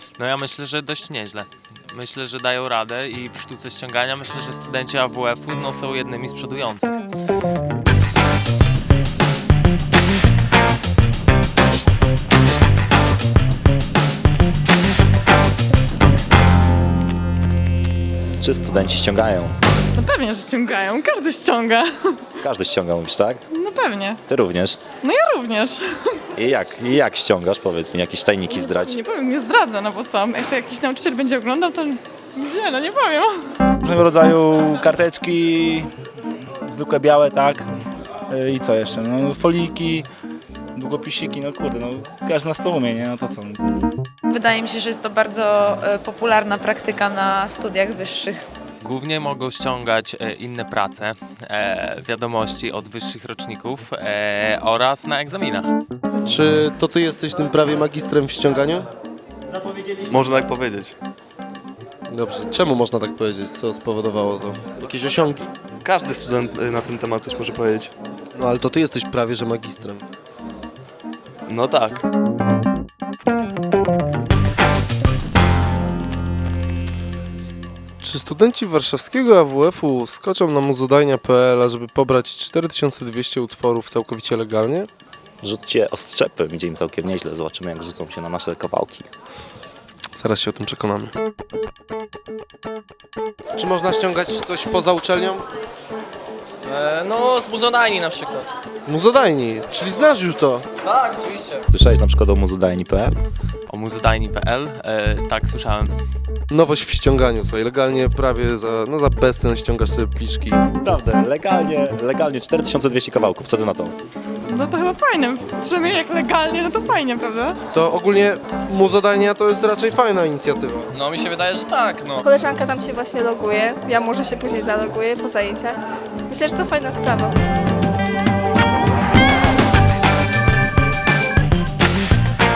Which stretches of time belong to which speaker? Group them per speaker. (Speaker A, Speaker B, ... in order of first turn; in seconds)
Speaker A: 0.2-6.9, 48.8-55.7, 103.7-105.9
Speaker B: 18.4-19.5, 22.4-23.4, 24.3-24.9, 26.4-29.0, 85.4-89.1, 101.7-103.2, 110.8-114.0
Speaker C: 19.9-22.3, 23.5-24.2, 25.0-26.2, 28.5-33.4, 114.5-117.6
Speaker D: 33.8-35.9, 36.7-37.7, 38.3-40.1, 40.8-43.8
Speaker E: 44.3-48.4
Speaker F: 56.2-58.9, 62.1-65.5, 68.3-70.1, 78.0-84.9, 90.2-91.1, 93.6-95.5, 98.8-100.7, 106.5-110.7, 117.7-120.9
Speaker G: 60.1-60.9, 65.8-67.9, 71.5-72.0
Speaker H: 96.7-98.5, 100.8-101.6, 120.9-122.3
Speaker I: 122.2-127.4